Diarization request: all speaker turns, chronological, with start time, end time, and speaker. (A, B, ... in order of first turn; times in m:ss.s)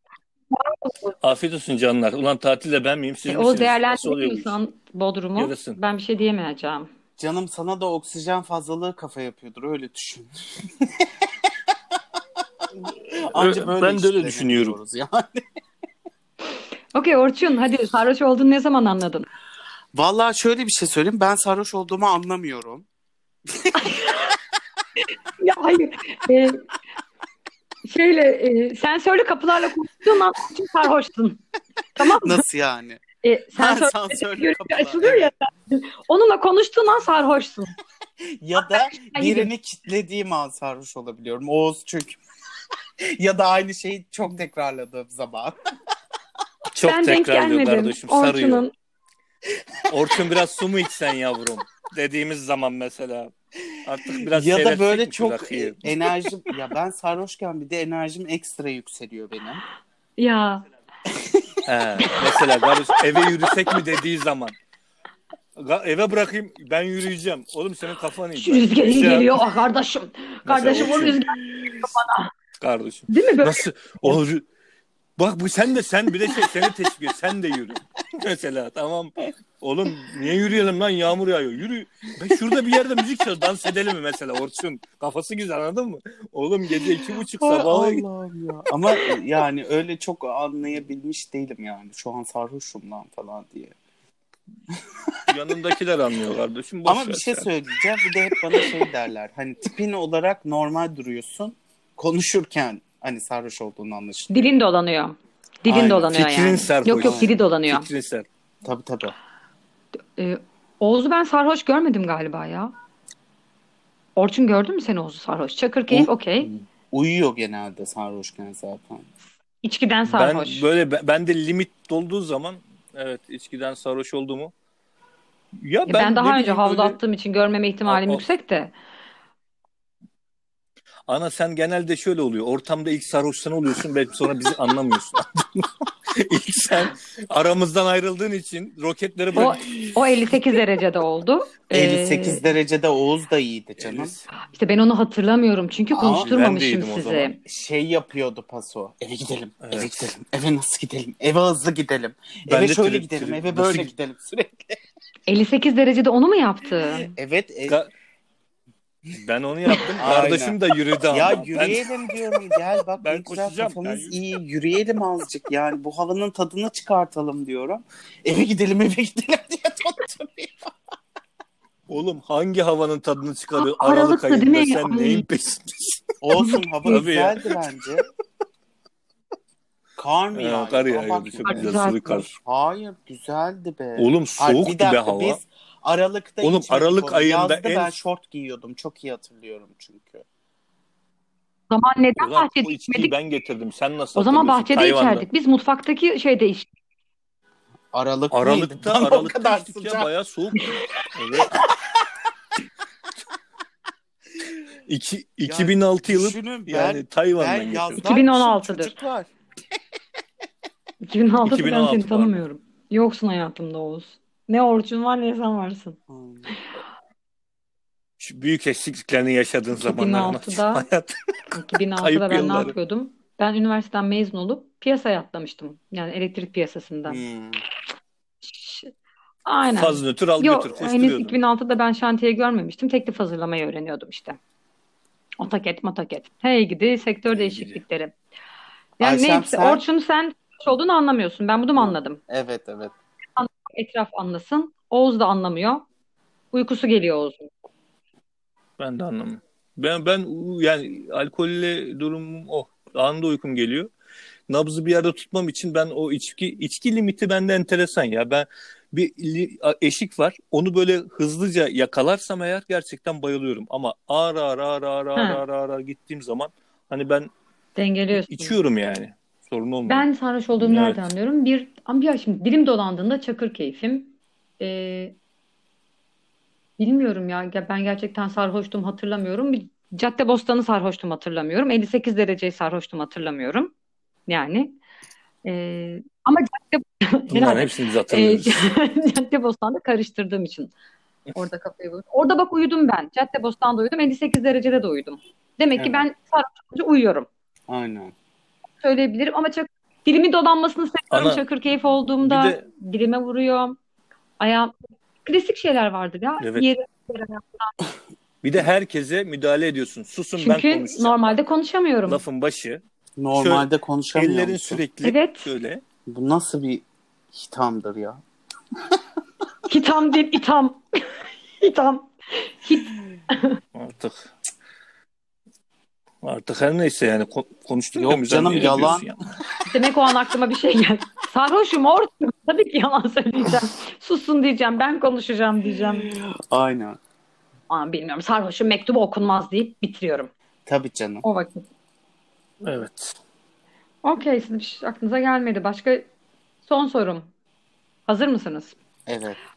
0:00.5-0:01.2 A
0:01.2-0:04.6 B
0:03.2-0:06.9 A
0:05.4-0:05.8 B
0:07.2-0:11.1 C
0:12.8-0:15.4 C
0:13.3-0:14.8 B
0:16.9-0:19.3 A
0:19.9-0:22.8 C
0:23.5-0:24.3 C
0:23.8-0:24.3 A
0:25.4-0:26.6 A
0:27.8-0:31.4 A
0:32.0-0:32.4 A
0:32.0-0:33.0 C
0:33.2-0:37.7 A
0:33.6-0:35.3 C
0:38.2-0:42.2 C
0:39.0-0:39.5 A
0:43.0-0:45.6 C
0:46.7-0:48.6 B
0:46.8-0:48.7 A
0:49.9-0:55.9 B
0:54.2-0:59.6 C
1:00.2-1:00.6 A
1:01.1-1:01.6 C
1:01.6-1:04.5 B
1:05.6-1:09.4 B
1:08.4-1:12.3 A
1:10.4-1:11.2 B
1:12.6-1:14.4 B
1:13.1-1:14.2 A
1:15.2-1:28.0 B
1:26.8-1:33.7 C
1:34.7-1:35.2 C
1:35.3-1:37.5 B
1:36.8-1:44.4 C
1:44.3-1:47.9 A
1:45.7-1:48.2 B
1:47.0-1:47.3 C
1:48.6-1:49.1 C
1:50.2-1:52.7 A
1:54.2-1:56.5 A
1:55.9-1:59.0 C
1:59.6-2:00.6 A
2:00.1-2:04.5 B
2:05.6-2:07.0 B
2:05.9-2:08.7 A
2:07.8-2:08.2 B
2:11.1-2:20.0 B
2:19.4-2:22.4 A
2:21.7-2:24.1 C
2:23.8-2:24.3 B
2:24.4-2:27.4 A
2:25.9-2:26.3 C
2:26.0-2:27.3 B
2:27.4-2:34.8 C
2:29.6-2:30.1 B
2:32.5-2:33.9 B
2:35.3-2:37.1 A
2:37.1-2:37.8 C
2:39.1-2:41.8 B
2:40.0-2:40.6 C
2:41.1-2:50.7 C
2:43.0-2:44.2 B
2:51.9-2:56.0 B
2:53.6-2:55.2 A
2:56.2-2:58.1 C
2:56.4-2:57.0 A
2:56.8-2:57.6 B
3:00.0-3:01.8 C
3:00.3-3:02.3 B
3:01.4-3:02.2 A
3:02.4-3:10.2 C
3:04.0-3:05.4 B
3:06.4-3:08.0 B
3:11.7-3:13.1 A
3:12.2-3:15.2 B
3:14.1-3:16.7 A
3:17.9-3:20.1 C
3:18.3-3:21.7 B
3:24.9-3:28.0 B
3:25.4-3:29.3 C
3:28.0-3:28.9 A
3:31.0-3:36.0 A
3:31.4-3:32.4 B
3:36.1-3:36.5 C
3:38.2-3:41.1 B
3:39.8-3:40.8 A
3:41.5-3:47.2 A
3:42.0-3:42.7 B
3:47.1-3:47.6 C
3:48.4-3:48.9 A
3:49.4-3:54.4 A
3:49.7-3:51.4 B
3:55.4-3:58.1 A
3:57.3-3:57.8 C
3:59.0-4:02.2 A
3:59.0-3:59.8 C
4:01.8-4:02.9 C
4:03.4-4:05.8 A
4:06.5-4:07.5 A
4:08.8-4:13.9 B
4:14.5-4:27.3 B
4:25.2-4:25.4 A
4:27.8-4:28.6 A
4:28.1-4:31.1 B
4:29.9-4:35.1 A
4:36.8-4:43.7 A
4:44.3-4:44.8 A
4:45.4-4:50.7 A
4:47.3-4:48.7 B
4:51.3-4:57.3 A
4:55.8-4:56.0 C
4:57.7-4:58.1 C
4:58.8-5:03.8 A
5:01.1-5:01.4 B
5:02.2-5:02.6 B
5:04.4-5:04.7 A
5:05.2-5:07.7 A
5:06.4-5:06.7 B
5:08.4-5:11.3 B
5:10.4-5:12.2 A
5:12.0-5:12.8 B
5:13.2-5:14.8 C
5:13.4-5:15.8 B
5:15.0-5:15.5 A
5:16.0-5:18.2 C
5:19.7-5:20.8 A
5:21.6-5:23.6 A
5:23.7-5:24.3 B
5:26.2-5:29.2 B
5:28.0-5:29.1 C
5:29.7-5:36.1 A
5:36.0-5:37.0 C
5:37.7-5:40.3 A
5:40.6-5:41.2 C
5:41.2-5:41.7 A
5:42.6-5:43.2 B
5:44.0-5:46.1 A
5:46.6-5:47.3 A
5:48.1-5:48.8 A
5:49.1-5:49.4 C